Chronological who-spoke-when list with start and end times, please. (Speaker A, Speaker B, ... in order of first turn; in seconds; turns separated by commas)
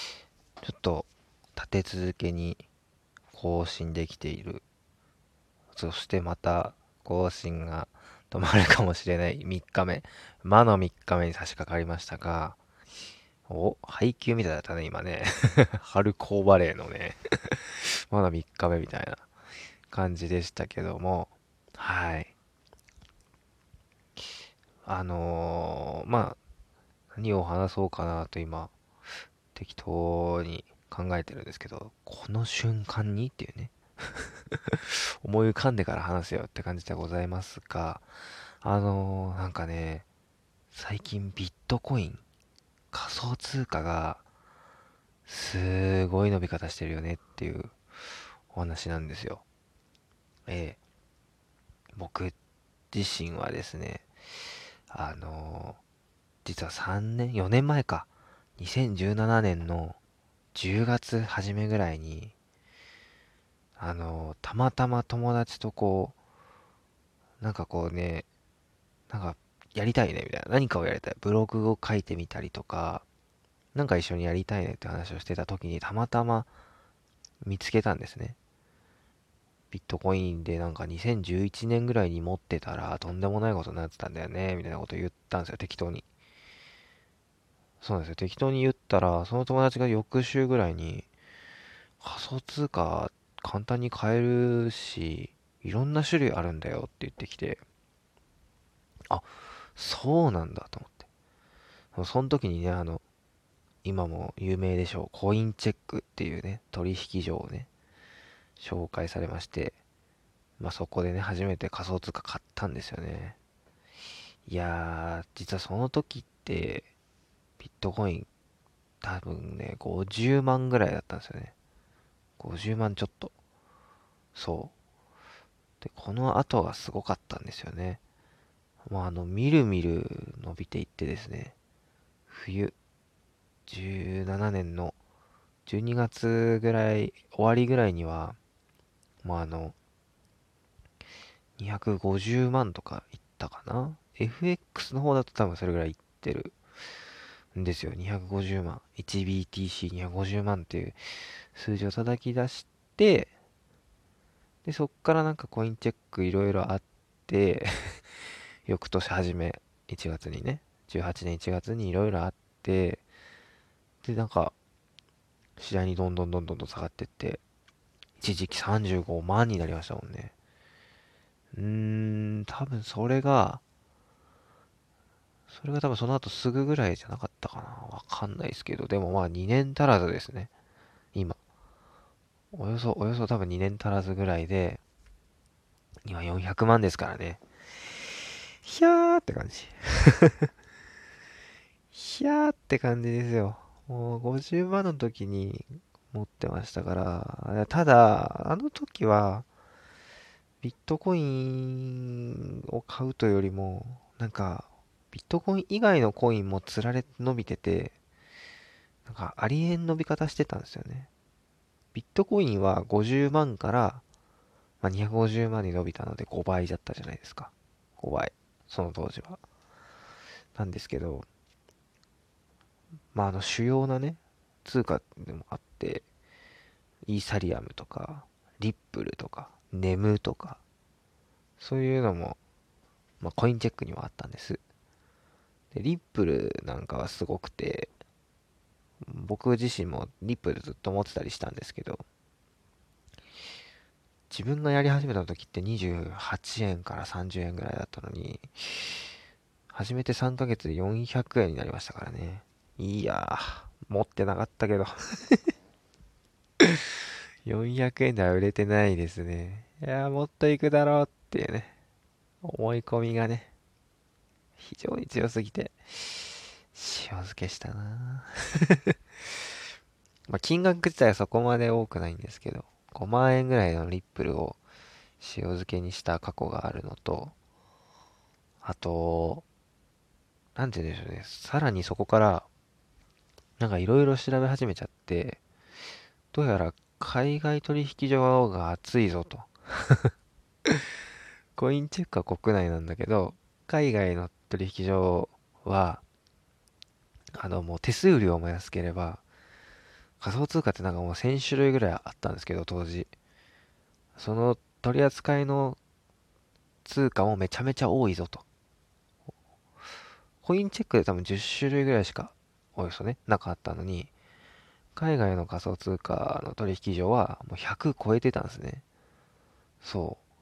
Speaker A: 0.6-2.6, Speaker A: 3.3-4.6, Speaker A: 5.7-12.6, Speaker A: 13.5-19.3, Speaker A: 19.9-22.3, Speaker A: 24.9-26.4, Speaker A: 27.1-28.7, Speaker A: 29.5-38.1, Speaker A: 38.6-40.0, Speaker A: 40.7-42.2, Speaker A: 42.9-44.2, Speaker A: 45.2-47.8, Speaker A: 48.5-49.4, Speaker A: 50.5-50.8, Speaker A: 51.9-52.3, Speaker A: 52.9-54.1, Speaker A: 54.9-55.8, Speaker A: 56.4-60.0, Speaker A: 60.5-62.3, Speaker A: 63.8-66.2, Speaker A: 67.4-68.3, Speaker A: 69.1-73.0, Speaker A: 73.7-76.5, Speaker A: 77.4-78.4, Speaker A: 79.7-86.0, Speaker A: 87.8-91.1, Speaker A: 92.0-97.6, Speaker A: 99.1-101.1, Speaker A: 101.9-103.0, Speaker A: 103.8-107.7, Speaker A: 108.6-109.8, Speaker A: 110.6-113.4, Speaker A: 114.5-116.9, Speaker A: 117.6-118.3, Speaker A: 119.0-121.5, Speaker A: 122.4-123.3, Speaker A: 124.3-124.7, Speaker A: 125.8-128.0, Speaker A: 128.8-131.5, Speaker A: 132.3-132.7, Speaker A: 133.7-135.0, Speaker A: 135.7-138.4, Speaker A: 139.2-139.7, Speaker A: 141.6-146.6, Speaker A: 147.5-151.0, Speaker A: 151.5-153.3, Speaker A: 154.6-158.0, Speaker A: 158.7-163.0, Speaker A: 164.0-164.5, Speaker A: 165.6-167.4, Speaker A: 168.2-170.3, Speaker A: 171.5-173.6, Speaker A: 175.5-180.5, Speaker A: 182.5-184.8, Speaker A: 186.0-187.4, Speaker A: 188.6-190.5, Speaker A: 191.9-199.4, Speaker A: 200.6-207.9, Speaker A: 209.0-211.1, Speaker A: 211.9-214.0, Speaker A: 214.8-219.4, Speaker A: 220.5-221.2, Speaker A: 223.1-226.1, Speaker A: 227.1-230.6, Speaker A: 231.6-232.4, Speaker A: 233.2-234.6, Speaker A: 235.7-237.9, Speaker A: 239.0-242.0, Speaker A: 244.3-249.1, Speaker A: 249.7-255.5, Speaker A: 257.4-261.7, Speaker A: 262.4-263.5, Speaker A: 264.6-268.9, Speaker A: 270.3-274.6, Speaker A: 275.2-277.3, Speaker A: 278.6-279.4, Speaker A: 280.6-282.5, Speaker A: 283.6-285.4, Speaker A: 286.3-290.1, Speaker A: 291.6-296.0, Speaker A: 297.3-299.2, Speaker A: 300.2-303.1, Speaker A: 304.1-305.8, Speaker A: 306.8-308.4, Speaker A: 310.4-314.1, Speaker A: 314.9-318.8, Speaker A: 319.8-320.2